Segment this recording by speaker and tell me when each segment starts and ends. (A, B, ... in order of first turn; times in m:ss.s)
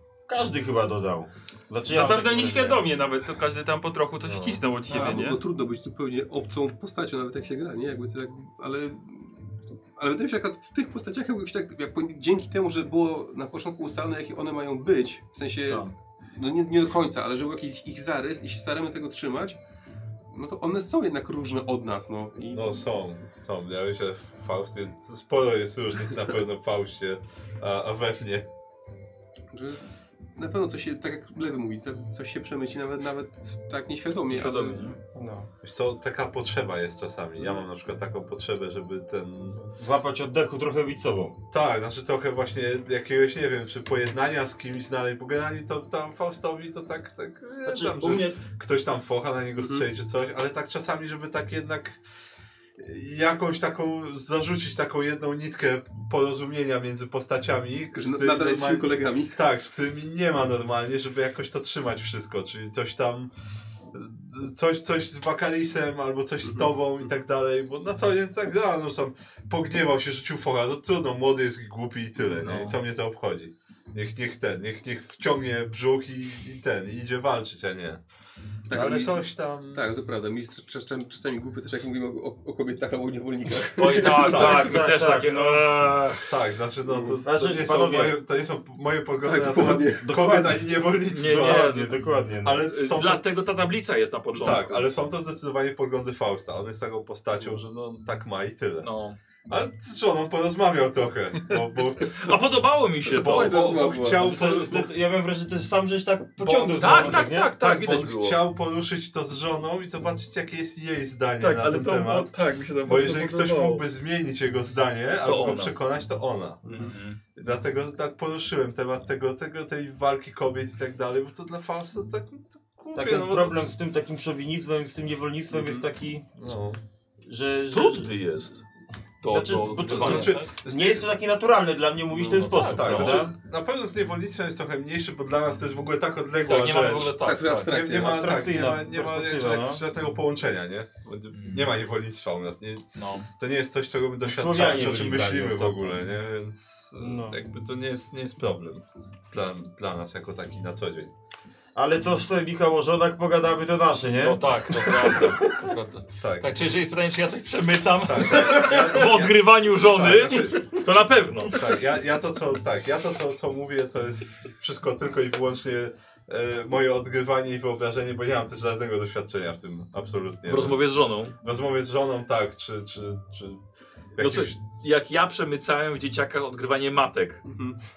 0:00.3-0:02.8 A
0:01.9-0:05.4 B
0:02.0-0:02.7 C
0:04.2-0:04.6 D
0:04.9-0:19.6 E
0:04.9-0:05.2 C
0:15.7-0:15.9 C
0:20.3-0:22.8 E
0:22.5-0:28.5 D
0:29.5-0:34.9 E
0:34.3-0:35.0 C
0:35.1-0:35.5 A
0:35.6-0:39.7 D
0:39.8-0:41.4 A
0:41.5-0:52.0 D
0:47.6-0:48.4 A
0:49.6-0:49.8 E
0:52.8-1:03.3 D
0:58.0-0:59.4 E
1:03.9-1:18.0 D
1:06.4-1:06.7 E
1:12.2-1:12.8 C
1:18.7-1:24.2 E
1:18.7-1:19.9 D
1:23.8-1:26.3 C
1:24.0-1:25.8 A
1:24.1-1:24.9 D
1:26.2-1:31.9 D
1:27.0-1:28.2 A
1:29.2-1:30.2 E
1:29.4-1:32.7 A
1:31.1-1:31.9 C
1:32.4-1:33.3 D
1:32.6-1:34.9 C
1:34.3-1:38.9 D
1:38.8-1:39.2 C
1:39.5-1:42.4 D
1:42.0-1:43.6 C
1:43.1-1:44.5 E
1:43.1-1:44.9 D
1:44.2-1:47.6 A
1:46.4-1:48.4 C
1:46.8-1:52.4 D
1:51.4-1:53.8 C
1:52.9-2:03.7 D
1:55.2-1:55.7 C
1:56.7-1:56.9 E
1:56.7-1:57.2 C
2:02.9-2:06.3 A
2:05.5-2:05.8 D
2:06.4-2:06.8 D
2:07.2-2:08.1 A
2:07.7-2:08.6 C
2:09.2-2:10.5 C
2:09.3-2:13.3 A
2:09.8-2:11.1 D
2:12.2-2:31.1 D
2:12.2-2:13.2 C
2:16.4-2:17.8 C
2:17.2-2:18.7 E
2:17.9-2:19.8 A
2:21.3-2:21.7 C
2:23.0-2:23.3 C
2:24.2-2:26.1 A
2:27.0-2:27.4 A
2:31.8-2:34.8 A
2:34.1-2:41.6 C
2:36.2-2:36.5 D
2:38.0-2:40.8 D
2:41.5-2:50.9 D
2:50.5-2:51.4 C
2:51.4-2:53.6 D
2:54.2-2:54.6 D
2:54.2-2:57.4 C
2:57.5-2:57.8 E